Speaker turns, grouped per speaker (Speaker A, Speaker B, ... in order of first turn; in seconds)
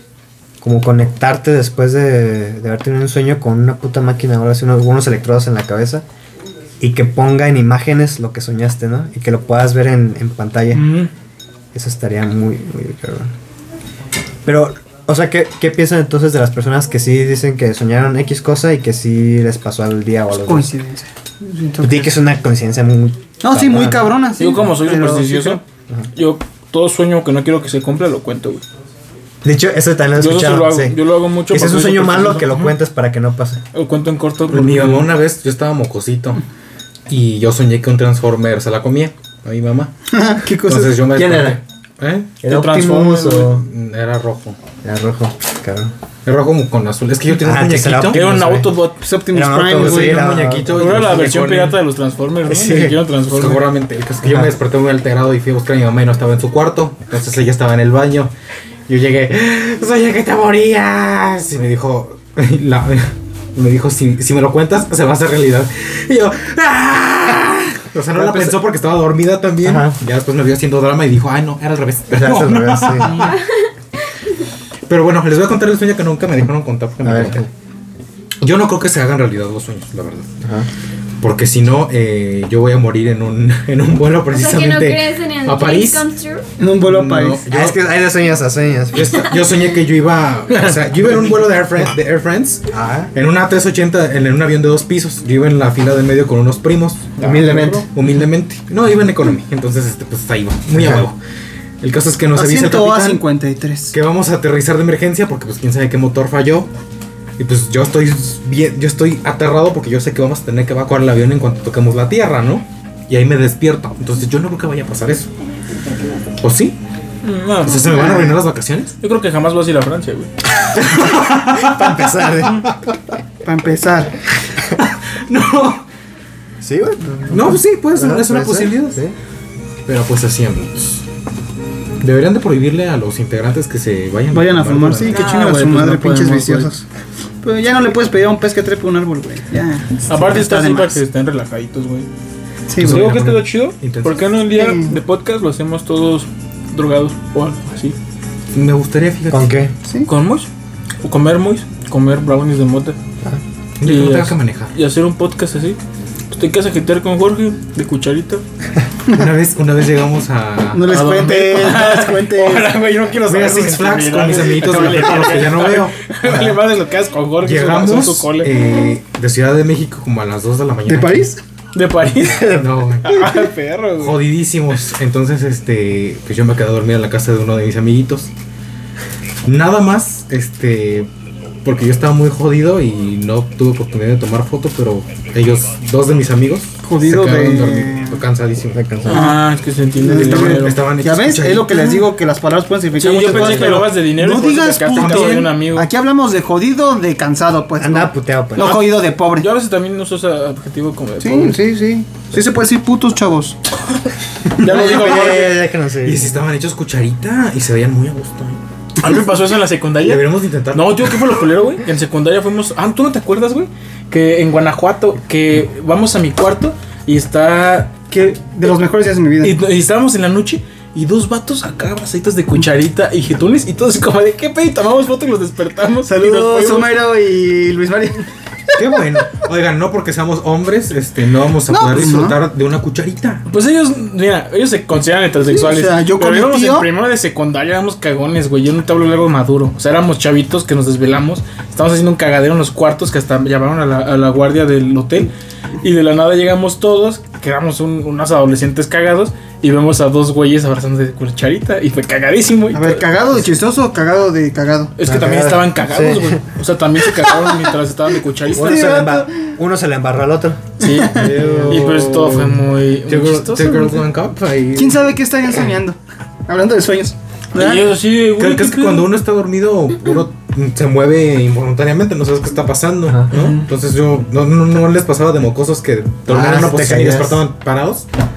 Speaker A: 0.6-6.0, 6.8-11.0, 11.7-13.3, 14.4-20.7, 21.8-24.1, 29.4-33.6, 41.1-41.6, 42.4-43.6, 44.8-45.9, 47.3-48.8, 49.3-51.0, 52.5-53.0, 54.2-54.5, 68.1-68.6, 69.6-70.0, 72.1-73.2, 77.0-77.5, 80.4-80.7, 87.5-89.3, 92.7-93.1, 97.2-97.9, 100.7-101.0, 121.5-122.7, 126.6-129.2, 149.3-149.7, 188.7-189.3, 193.3-193.7, 197.8-198.8, 204.6-206.4, 255.1-256.4, 258.5-260.6, 261.1-262.0, 276.3-277.4
Speaker B: 10.7-11.1, 24.4-25.6, 26.1-28.6, 30.2-32.6, 33.7-35.1, 42.5-43.6, 48.1-49.0, 50.7-53.6, 90.5-90.8, 97.2-97.8, 117.2-118.1, 119.0-120.3, 135.1-136.7, 140.1-142.1, 142.8-148.0, 150.1-150.5, 151.0-153.0, 153.8-155.8, 156.3-158.4, 160.9-168.5, 171.7-174.2, 189.1-190.8, 192.9-195.9, 198.6-201.6, 204.6-205.6, 209.0-217.9, 219.4-227.0, 233.5-253.1, 255.0-259.1, 260.8-264.0, 267.6-269.1
Speaker C: 20.4-22.2, 23.4-25.6, 40.1-41.0, 49.0-50.3, 86.6-87.5, 102.3-104.0, 117.9-118.4, 123.4-124.2, 134.3-136.8, 137.4-141.0, 142.7-143.1, 144.5-145.0, 149.8-150.1, 160.7-162.8, 170.9-171.4, 186.8-188.2, 189.1-189.4, 190.0-199.5, 201.2-203.6, 218.1-219.6, 226.1-228.8, 231.7-232.4, 235.5-236.9, 252.7-254.9, 258.6-259.3, 260.8-261.3, 264.8-267.9, 273.3-273.7
Speaker D: 34.5-36.4, 37.1-39.9, 40.6-42.4, 43.6-44.6, 46.2-48.2, 49.8-51.8, 53.3-58.3, 58.9-73.4, 74.9-77.5, 78.4-80.3, 81.2-86.1, 86.8-87.8, 88.9-97.2, 97.9-101.2, 101.8-103.2, 103.9-106.7, 107.4-115.3, 116.4-116.8, 117.6-118.9, 120.7-122.9, 124.8-125.8, 127.3-129.0, 129.9-131.0, 132.0-135.3, 142.8-144.2, 148.5-149.7, 153.8-154.7, 159.1-161.0, 163.2-166.6, 167.4-171.3, 172.4-173.3, 174.0-178.3, 179.4-181.1, 181.6-189.1, 190.3-192.0, 194.9-195.5, 204.8-208.6, 210.0-211.2, 228.8-233.4, 261.2-262.6, 263.1-265.0, 268.4-278.1
Speaker E: 84.3-86.5, 115.6-116.4